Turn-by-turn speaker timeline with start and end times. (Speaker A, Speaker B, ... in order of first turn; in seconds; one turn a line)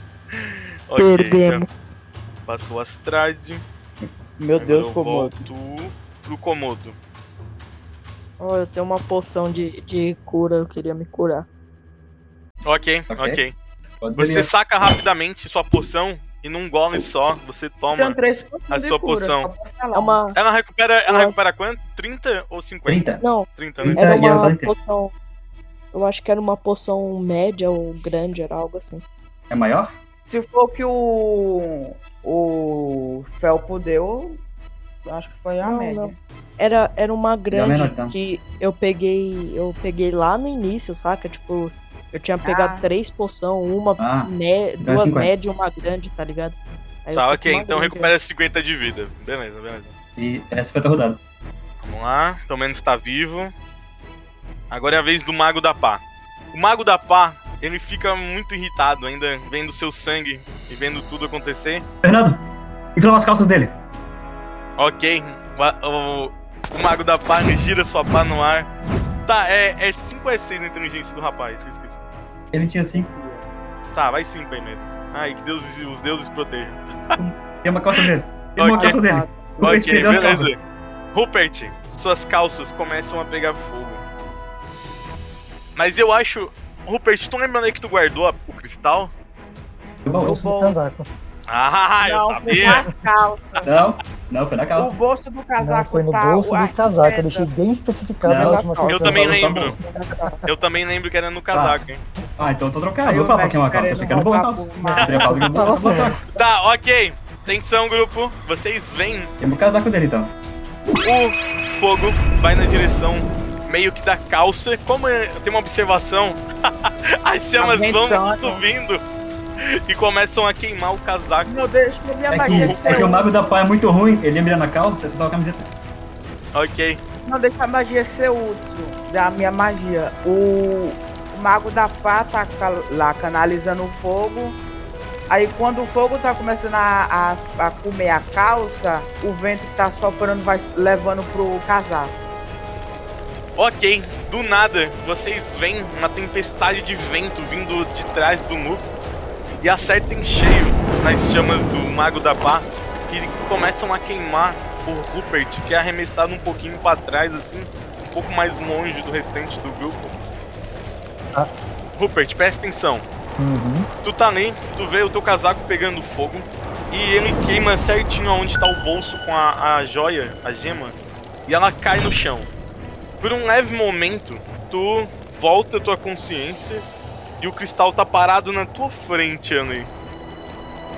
Speaker A: 0.3-1.6
Speaker B: 1.0-1.7
Speaker A: 2.5-3.6
Speaker C: 4.4-5.4
Speaker A: 4.6-6.9
Speaker B: 8.4-11.4
Speaker A: 12.6-13.5
Speaker D: 13.1-13.4
Speaker D: 14.0-14.5
Speaker A: 14.2-18.2
Speaker C: 17.9-20.2
Speaker A: 18.7-19.5
Speaker B: 19.9-20.4
Speaker A: 20.3-24.0
Speaker B: 21.1-21.3
Speaker D: 22.9-23.2
Speaker B: 23.2-25.1
Speaker D: 23.8-24.7
Speaker B: 25.9-29.0
Speaker D: 29.5-29.9
Speaker C: 30.3-34.4
Speaker C: 35.0-36.2
Speaker B: 35.6-48.1
Speaker D: 37.5-38.1
Speaker C: 42.4-42.8
Speaker D: 44.0-45.3
Speaker A: 47.1-49.9
Speaker D: 50.2-51.2
Speaker A: 51.8-53.5
Speaker A: 54.7-56.0
Speaker A: 56.5-61.9
Speaker D: 62.0-62.4
Speaker D: 62.9-63.7
Speaker A: 64.8-68.7
Speaker A: 69.2-72.0
Speaker D: 72.5-73.1
Speaker C: 72.9-73.4
Speaker A: 73.9-77.2
Speaker D: 77.2-80.5
Speaker A: 78.5-79.0
Speaker C: 78.8-80.2
Speaker A: 79.6-80.6
Speaker A: 81.1-84.0
Speaker A: 85.8-89.1
Speaker D: 90.0-90.4
Speaker C: 90.2-90.8
Speaker E: 90.2-91.1
Speaker A: 91.5-92.8
Speaker C: 92.0-93.7
Speaker D: 93.6-95.0
Speaker C: 94.7-97.5
Speaker E: 95.6-99.5
Speaker D: 98.2-99.8
Speaker B: 98.3-100.4
Speaker A: 98.9-99.8
Speaker A: 100.4-102.0
Speaker D: 101.5-101.8
Speaker D: 102.4-106.2
Speaker C: 103.0-105.4
Speaker E: 104.8-106.1
Speaker A: 105.0-105.2
Speaker B: 105.5-106.2
Speaker A: 106.3-109.3
Speaker D: 109.4-110.3
Speaker A: 111.0-119.0
Speaker C: 117.6-118.6
Speaker A: 119.6-121.5
Speaker C: 121.5-123.3
Speaker D: 122.3-125.7
Speaker A: 122.4-123.1
Speaker A: 126.5-127.0
Speaker C: 127.2-134.6
Speaker C: 135.3-142.1
Speaker A: 143.6-149.1
Speaker A: 149.6-160.1
Speaker A: 161.9-163.0
Speaker E: 163.4-163.9
Speaker A: 164.0-170.9
Speaker A: 171.5-172.5
Speaker A: 173.2-176.8
Speaker A: 177.4-179.9